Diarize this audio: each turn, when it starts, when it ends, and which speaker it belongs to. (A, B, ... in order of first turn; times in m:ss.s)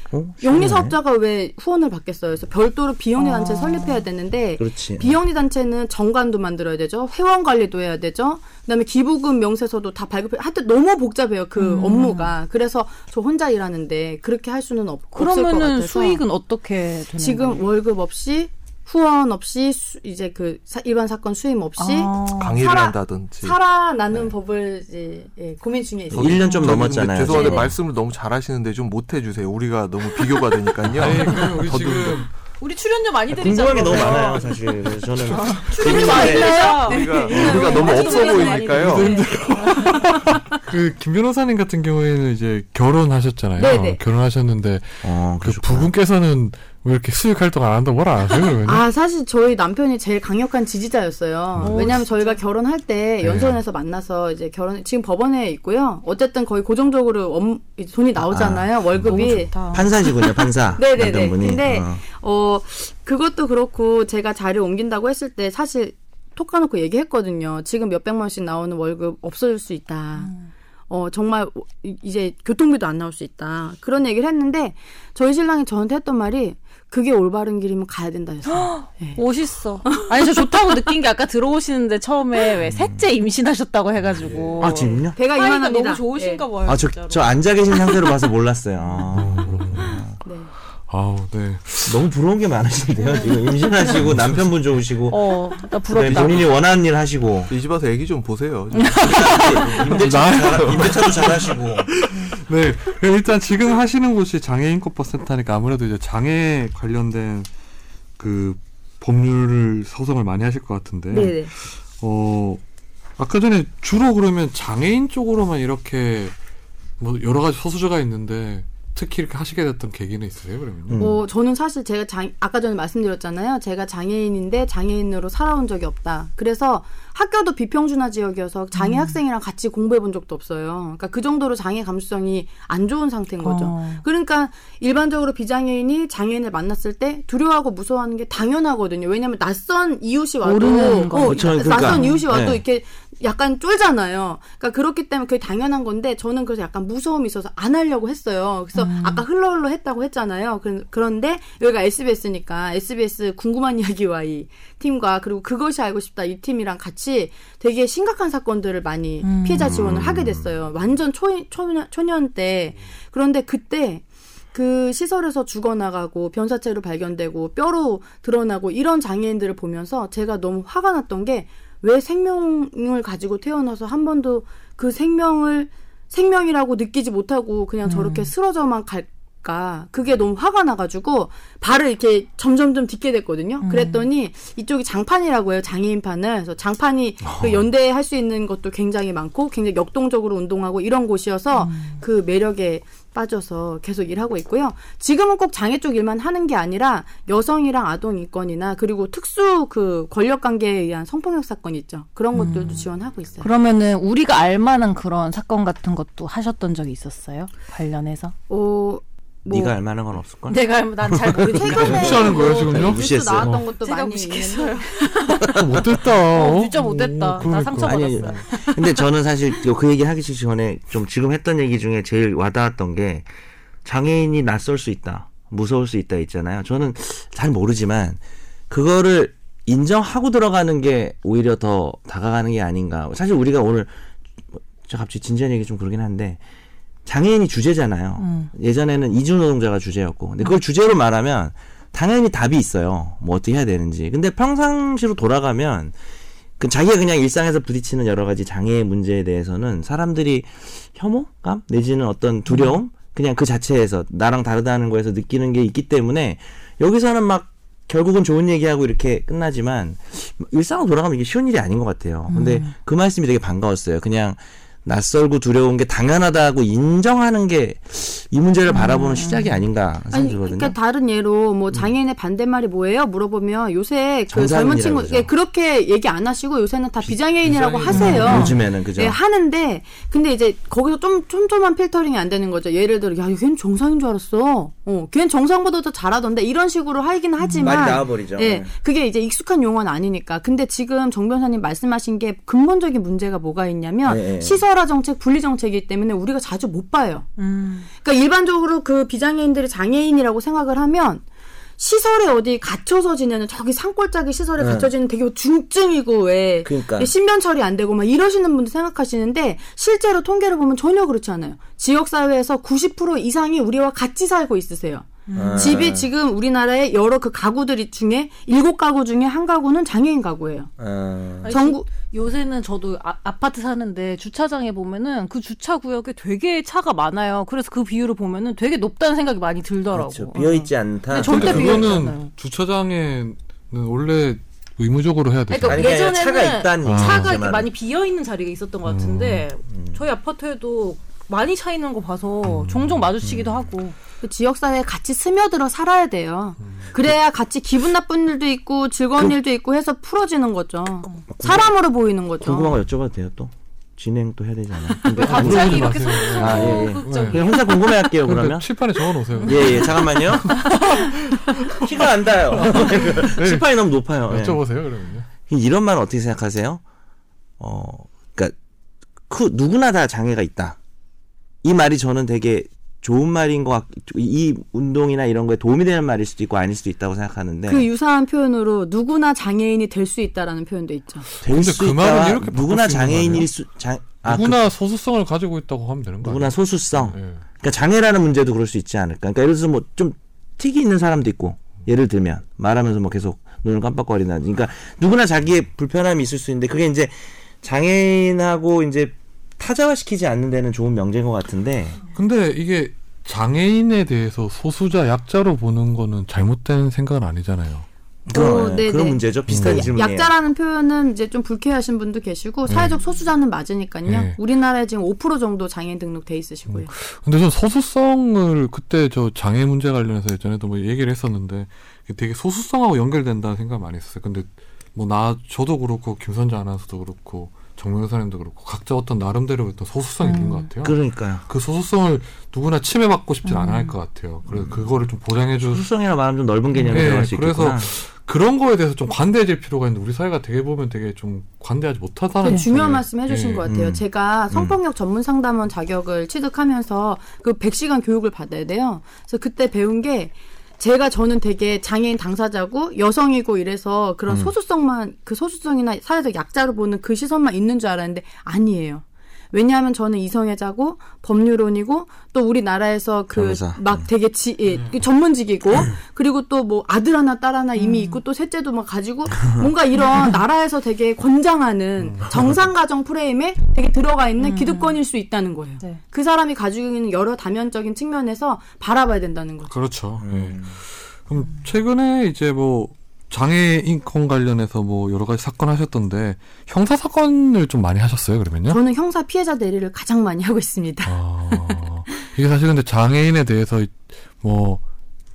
0:00.1-0:01.0 A
0:00.4-0:16.2 B
0:03.2-0:04.0 C
0:04.6-0:05.2 A
0:11.6-0:12.3 C
0:15.1-0:17.7 C
0:17.2-0:27.6 B
0:21.8-0:22.6 C
0:22.4-0:23.6 D
0:26.1-0:27.7 A
0:26.1-0:32.2 D
0:30.8-0:32.3 E
0:32.6-0:34.5 C
0:33.3-0:36.7 A
0:35.3-0:40.0 C
0:35.6-0:39.1 B
0:36.1-0:39.1 D
0:37.3-0:37.7 A
0:38.7-0:48.8 E
0:43.6-0:44.0 B
0:45.0-0:45.9 A
0:48.6-0:59.5 B
0:51.6-0:52.4 C
0:53.2-0:53.6 E
0:58.2-1:02.0 A
0:59.0-1:00.3 C
1:00.7-1:10.3 B
1:10.2-1:10.4 C
1:10.9-1:19.2 B
1:18.4-1:27.9 C
1:19.8-1:20.8 B
1:22.7-1:23.0 A
1:24.6-1:25.2 A
1:24.7-1:26.5 B
1:26.6-1:30.1 A
1:29.1-1:30.0 E
1:30.2-1:30.5 B
1:30.9-1:32.0 E
1:31.8-1:35.3 A
1:34.0-1:34.4 E
1:35.1-1:36.5 C
1:35.9-1:37.5 A
1:36.1-1:36.4 D
1:37.5-1:41.3 D
1:38.7-1:39.7 C
1:39.0-1:41.9 A
1:39.8-1:47.5 E
1:48.2-1:52.6 E
1:51.1-1:51.5 B
1:53.2-1:56.3 E
1:57.0-2:01.0 E
2:00.9-2:01.2 A
2:01.0-3:23.5 B
2:08.7-2:09.2 C
2:13.4-2:14.0 C
2:20.4-2:22.2 C
2:21.2-2:22.6 A
2:28.7-2:29.2 C
2:39.2-2:39.7 C
2:39.6-2:40.4 A
2:57.8-2:58.3 C
3:03.6-3:04.1 C
3:07.2-3:07.7 A
3:11.5-3:12.0 C
3:22.3-3:22.8 C
3:23.4-3:28.3 C
3:28.5-3:29.7 B
3:29.5-3:33.6 A
3:30.5-3:32.4 C
3:31.4-3:35.1 B
3:31.8-3:33.6 E
3:33.8-3:38.8 C
3:35.4-3:38.4 E
3:35.4-3:35.8 A
3:37.8-3:43.3 A
3:43.8-3:53.9 A
3:54.5-3:56.4 A
3:57.0-4:05.9 A
3:58.2-3:58.5 C
4:06.6-4:30.7 A
4:22.3-4:22.7 C
4:28.7-4:29.6 C
4:30.1-4:57.3 B
4:34.3-4:35.3 A
4:37.4-4:38.6 E
4:37.9-4:38.6 C
4:37.9-4:39.2 A
4:47.4-4:48.0 C
4:47.6-4:48.7 A
4:54.0-4:54.6 A
4:57.4-4:57.9 C
4:58.0-5:01.2 B
5:01.8-5:20.7 B
5:04.6-5:04.9 A
5:06.6-5:07.1 A
5:15.3-5:15.8 C
5:15.3-5:16.1 A
5:20.8-5:21.5 A
5:21.4-5:32.3 C
5:21.4-5:21.9 B
5:29.9-5:31.9 A
5:31.2-5:35.8 E
5:35.5-5:43.9 C
5:35.6-5:37.7 A
5:36.8-5:37.4 E
5:38.9-5:39.4 E
5:42.4-5:43.1 E
5:43.2-5:43.5 A
5:44.2-5:52.8 B
5:46.6-5:46.9 E
5:51.3-5:51.7 A
5:52.4-5:58.7 A
5:55.1-5:57.4 E
5:55.1-5:57.9 C
5:57.9-6:01.1 E
5:59.4-5:59.8 C
5:59.4-6:00.7 A
6:00.6-6:01.1 C
6:01.8-6:04.6 A
6:02.5-6:03.7 E
6:04.2-6:05.3 E
6:05.5-6:06.8 A
6:07.6-6:08.5 A
6:09.3-6:10.8 A
6:11.6-6:17.8 A
6:17.7-6:21.3 B
6:21.4-6:23.5 E
6:21.4-6:24.6 A
6:24.2-6:27.4 E
6:26.2-6:42.0 A
6:42.1-6:47.8 E
6:48.3-6:50.3 A
6:48.3-6:56.9 B
6:49.5-6:49.9 E
6:52.7-6:53.0 E
6:54.0-6:54.4 E
6:56.7-7:15.8 E
7:10.2-7:10.7 C
7:10.8-7:11.4 A
7:13.4-7:13.9 C
7:14.5-7:14.9 A
7:15.6-7:17.9 A
7:16.8-7:23.6 E
7:22.4-7:59.7 B
7:23.6-7:24.8 A
7:43.3-7:44.0 A
7:47.8-7:48.2 C
7:52.0-7:52.3 E
7:54.4-7:55.0 C
7:59.7-8:08.8 E
8:00.2-8:00.7 A
8:08.7-8:11.8 B
8:11.0-8:14.8 E